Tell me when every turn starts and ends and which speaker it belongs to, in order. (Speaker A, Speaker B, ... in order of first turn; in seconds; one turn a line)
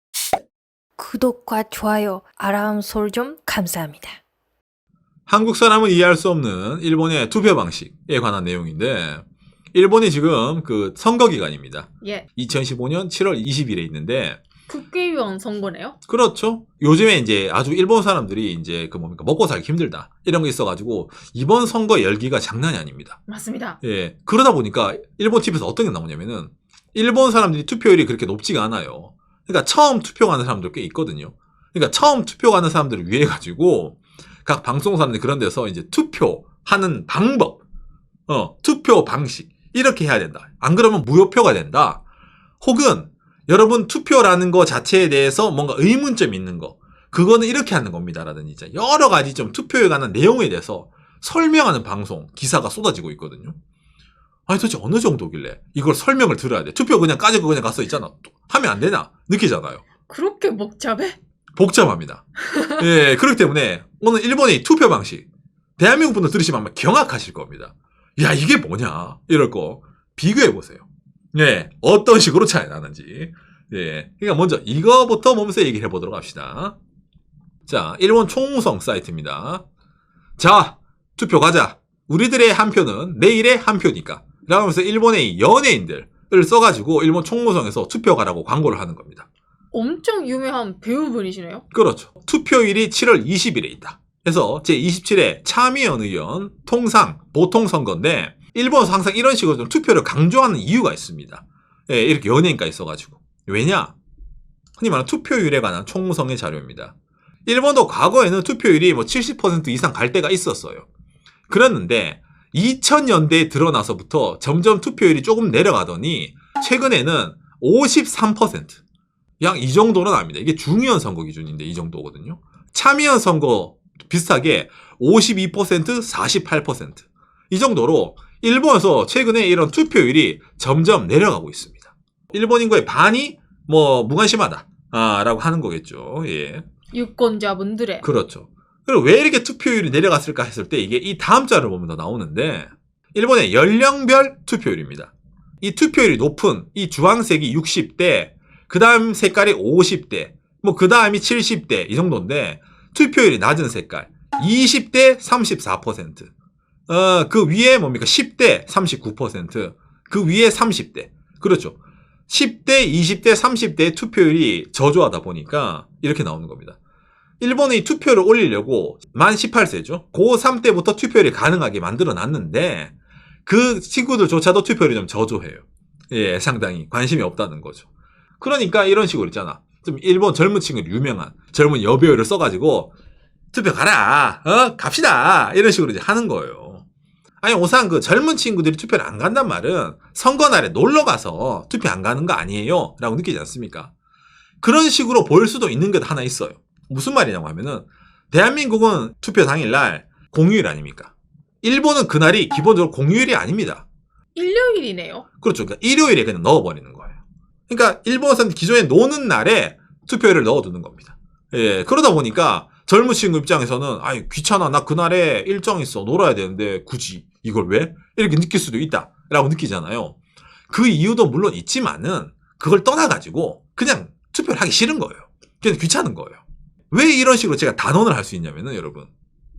Speaker A: 1.0-4.2
Speaker B: 5.3-14.4
Speaker C: 14.7-16.0
Speaker B: 16.1-23.2
Speaker C: 23.3-23.8
Speaker B: 23.8-37.6
Speaker B: 38.3-42.0
Speaker B: 42.6-53.6
Speaker B: 54.5-59.8
Speaker C: 60.1-61.2
Speaker B: 61.5-62.2
Speaker C: 62.4-62.8
Speaker B: 62.8-65.2
Speaker B: 65.8-76.8
Speaker B: 77.7-79.6
Speaker B: 80.4-89.3
Speaker C: 89.7-91.7
Speaker B: 91.7-103.9
Speaker B: 104.8-106.9
Speaker B: 107.5-110.8
Speaker B: 111.5-118.8
Speaker B: 119.4-136.6
Speaker C: 136.9-138.1
Speaker B: 138.0-156.3
Speaker B: 156.9-161.8
Speaker B: 162.3-166.8
Speaker B: 167.4-172.9
Speaker B: 173.5-177.9
Speaker B: 178.4-182.9
Speaker B: 183.5-186.8
Speaker B: 187.4-193.9
Speaker B: 194.6-203.8
Speaker C: 204.3-205.3
Speaker B: 205.4-207.2
Speaker B: 207.7-220.2
Speaker B: 220.7-226.4
Speaker B: 226.9-229.1